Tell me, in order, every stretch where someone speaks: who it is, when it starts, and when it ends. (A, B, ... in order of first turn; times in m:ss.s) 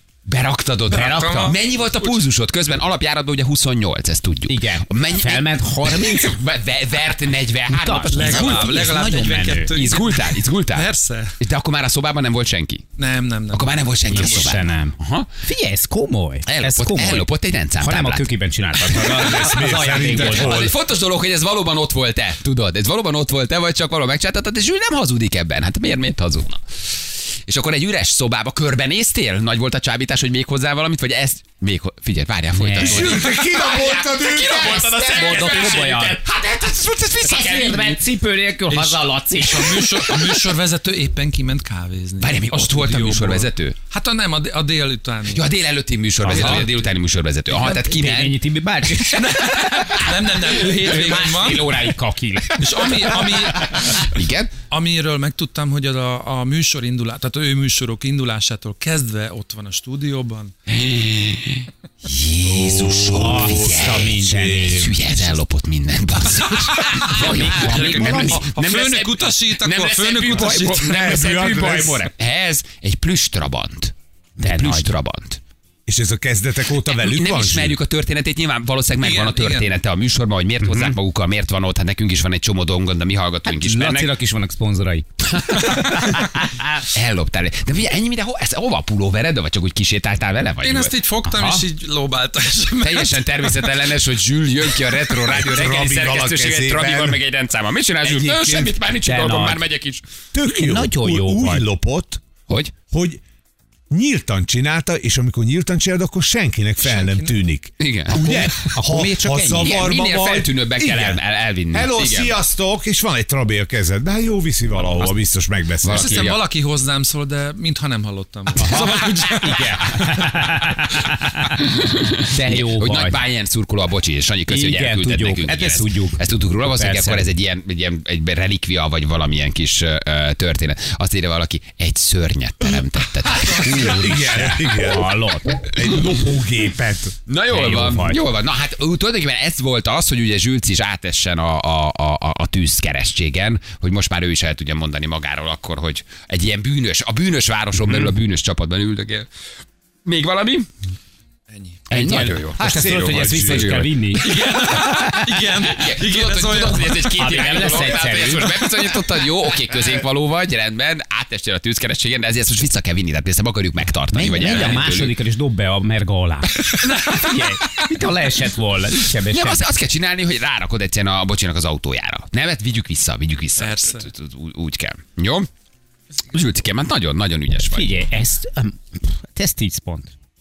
0:00.2-0:08.9 A
0:00.9-0:01.5 B
0:00.9-0:02.2 C
0:04.5-0:06.3 B
0:07.7-0:09.8 B
0:08.1-0:11.4 C
0:09.7-0:10.9 A
0:11.4-0:12.9 A
0:13.0-0:14.6 C
0:13.5-0:15.3 A
0:14.1-0:20.7 B
0:16.5-0:18.3 A
0:18.9-0:20.8 D
0:18.9-0:19.3 A
0:19.9-0:26.6 A
0:27.5-0:38.0 A
0:32.6-0:33.4 B
0:32.7-0:35.6 D
0:34.9-0:36.2 B
0:37.2-0:40.2 B
0:38.9-0:45.5 C
0:42.2-0:43.8 A
0:45.3-0:48.4 A
0:46.2-0:46.7 B
0:46.3-0:46.8 C
0:47.5-0:50.0 B
0:48.9-0:49.8 A
0:49.2-0:51.7 C
0:50.6-0:53.0 B
0:50.7-0:51.8 A
0:52.6-0:54.0 C
0:54.0-0:54.5 A
0:54.7-1:00.5 C
1:00.7-1:15.4 A
1:02.5-1:04.9 D
1:03.1-1:05.4 B
1:06.8-1:11.2 C
1:07.1-1:08.4 B
1:10.2-1:12.1 D
1:14.4-1:15.0 B
1:15.9-1:17.8 D
1:16.9-1:24.1 A
1:19.0-1:19.7 C
1:20.6-1:21.0 B
1:23.5-1:26.6 B
1:25.4-1:26.3 A
1:26.8-1:31.0 A
1:30.6-1:33.7 C
1:31.3-1:31.6 B
1:32.8-1:40.0 A
1:35.3-1:37.2 D
1:38.0-1:38.8 D
1:39.0-1:39.7 B
1:40.3-1:42.2 D
1:40.4-1:41.6 B
1:42.5-1:42.7 A
1:42.9-1:43.2 D
1:43.9-1:56.1 D
1:46.8-1:47.3 C
1:47.8-1:48.5 A
1:48.1-1:49.9 B
1:49.6-1:52.4 A
1:55.8-1:56.4 A
1:55.8-2:00.0 C
1:58.6-1:59.6 A
1:58.6-2:01.5 B
2:01.6-2:14.5 A
2:02.3-2:03.2 B
2:04.5-2:07.2 B
2:13.5-2:15.7 B
2:13.8-2:15.1 D
2:15.6-2:17.1 D
2:17.3-2:29.3 A
2:17.5-2:18.3 B
2:30.0-2:30.7 A
2:31.5-2:32.2 C
2:31.9-2:34.4 A
2:31.9-2:34.3 B
2:32.6-2:33.8 D
2:34.1-2:37.9 C
2:34.8-2:35.3 B
2:35.7-2:45.2 A
2:37.2-2:39.0 B
2:44.1-2:49.6 B
2:44.5-2:44.8 C
2:49.3-2:55.5 A
2:53.6-2:54.1 C
2:56.3-2:58.0 A
2:57.7-3:00.1 B